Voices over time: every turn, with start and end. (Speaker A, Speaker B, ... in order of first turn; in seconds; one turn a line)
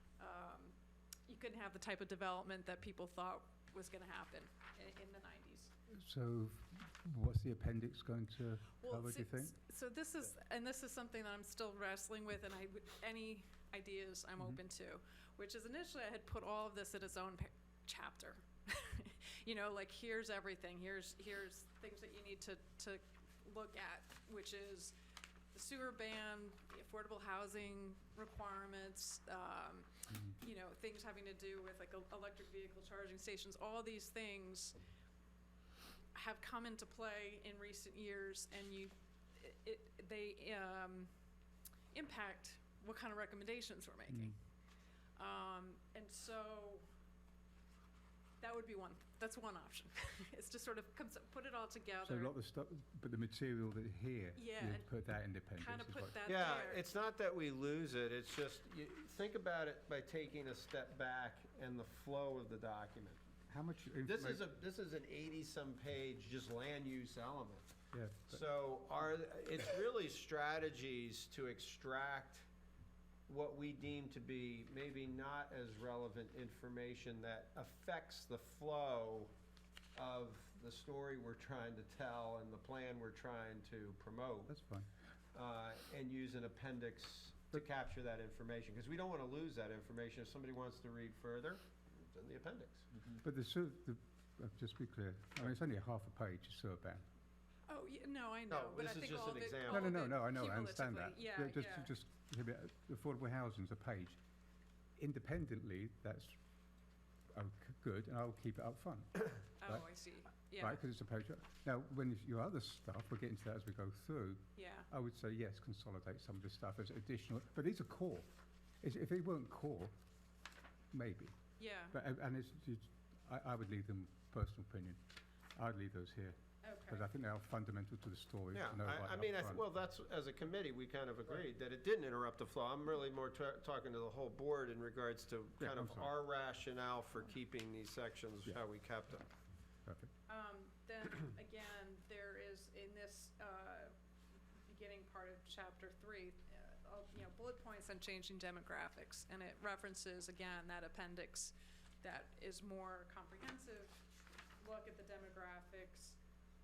Speaker A: 0.2-0.8
Speaker A: 1.3-5.7
Speaker B: 5.9-9.6
Speaker A: 8.8-24.9
Speaker A: 25.5-34.8
Speaker A: 36.1-41.1
Speaker A: 41.9-44.4
Speaker B: 44.1-44.3
Speaker A: 45.2-46.9
Speaker A: 48.4-52.3
Speaker B: 52.0-56.2
Speaker A: 54.4-54.9
Speaker A: 55.5-56.9
Speaker C: 56.2-63.2
Speaker B: 63.5-64.4
Speaker C: 64.1-67.7
Speaker B: 67.9-68.4
Speaker C: 68.3-72.5
Speaker C: 73.3-79.3
Speaker C: 80.0-84.5
Speaker B: 84.5-84.9
Speaker C: 85.3-93.2
Speaker B: 93.2-97.1
Speaker A: 97.7-101.9
Speaker C: 98.5-100.0
Speaker B: 99.7-104.2
Speaker B: 105.0-106.4
Speaker B: 107.3-109.9
Speaker A: 109.6-110.8
Speaker B: 110.6-118.3
Speaker A: 114.6-114.9
Speaker B: 118.8-119.9
Speaker B: 120.9-121.3
Speaker A: 121.6-122.0
Speaker B: 121.9-125.0
Speaker B: 125.5-129.6
Speaker A: 126.6-127.0
Speaker C: 128.5-139.2
Speaker B: 135.6-136.1
Speaker B: 139.8-140.1
Speaker A: 140.3-143.9
Speaker A: 144.6-154.1
Speaker A: 154.6-156.2